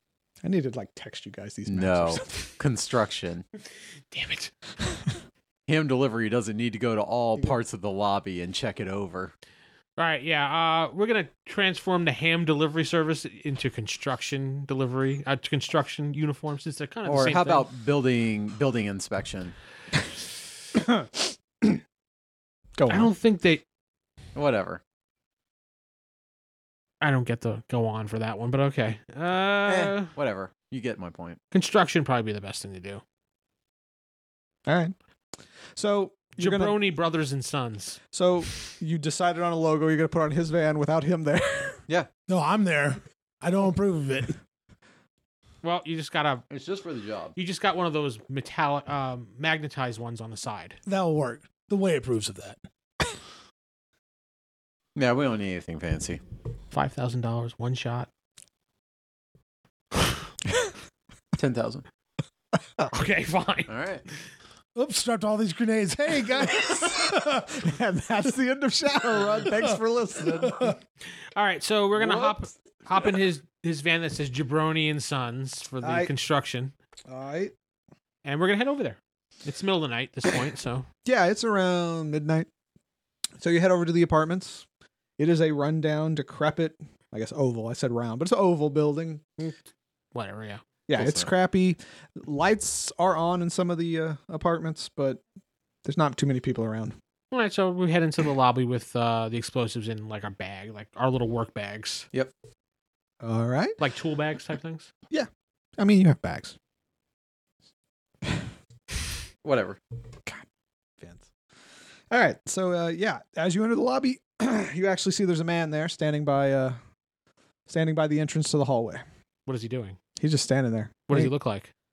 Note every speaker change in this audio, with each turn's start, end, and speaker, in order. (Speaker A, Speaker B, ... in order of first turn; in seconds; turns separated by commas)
Speaker A: 0.4-2.3, Speaker B: 1.7-3.5, Speaker C: 4.1-4.5, Speaker B: 5.7-9.3, Speaker C: 10.0-17.7, Speaker B: 17.1-19.6, Speaker A: 20.8-21.8, Speaker A: 22.8-23.1, Speaker C: 22.9-23.6, Speaker B: 24.4-24.8, Speaker C: 27.0-30.1, Speaker B: 29.7-31.4, Speaker C: 31.5-33.0, Speaker A: 34.7-34.9, Speaker A: 35.8-36.8, Speaker C: 36.4-38.0, Speaker A: 38.1-41.8, Speaker D: 42.3-44.4, Speaker C: 45.6-46.4, Speaker B: 46.5-47.4, Speaker C: 47.4-50.8, Speaker D: 50.9-52.6, Speaker B: 55.0-56.2, Speaker C: 56.7-58.1, Speaker B: 61.4-61.8, Speaker C: 62.9-63.7, Speaker B: 63.7-64.0, Speaker D: 64.8-67.6, Speaker A: 66.5-66.9, Speaker A: 67.5-70.8, Speaker D: 70.3-70.8, Speaker C: 71.3-76.7, Speaker A: 75.8-76.1, Speaker A: 77.1-77.5, Speaker C: 78.2-80.9, Speaker A: 81.0-82.5, Speaker A: 83.4-84.7, Speaker A: 85.2-89.2, Speaker C: 90.1-90.6, Speaker A: 90.9-95.2, Speaker B: 91.0-91.3, Speaker A: 95.8-97.0, Speaker C: 97.3-102.1, Speaker A: 103.2-103.8, Speaker C: 103.8-104.9, Speaker A: 105.1-106.6, Speaker B: 109.4-109.8, Speaker A: 112.1-116.8, Speaker A: 117.7-119.0, Speaker C: 119.5-120.0, Speaker A: 120.2-121.3, Speaker C: 121.1-121.7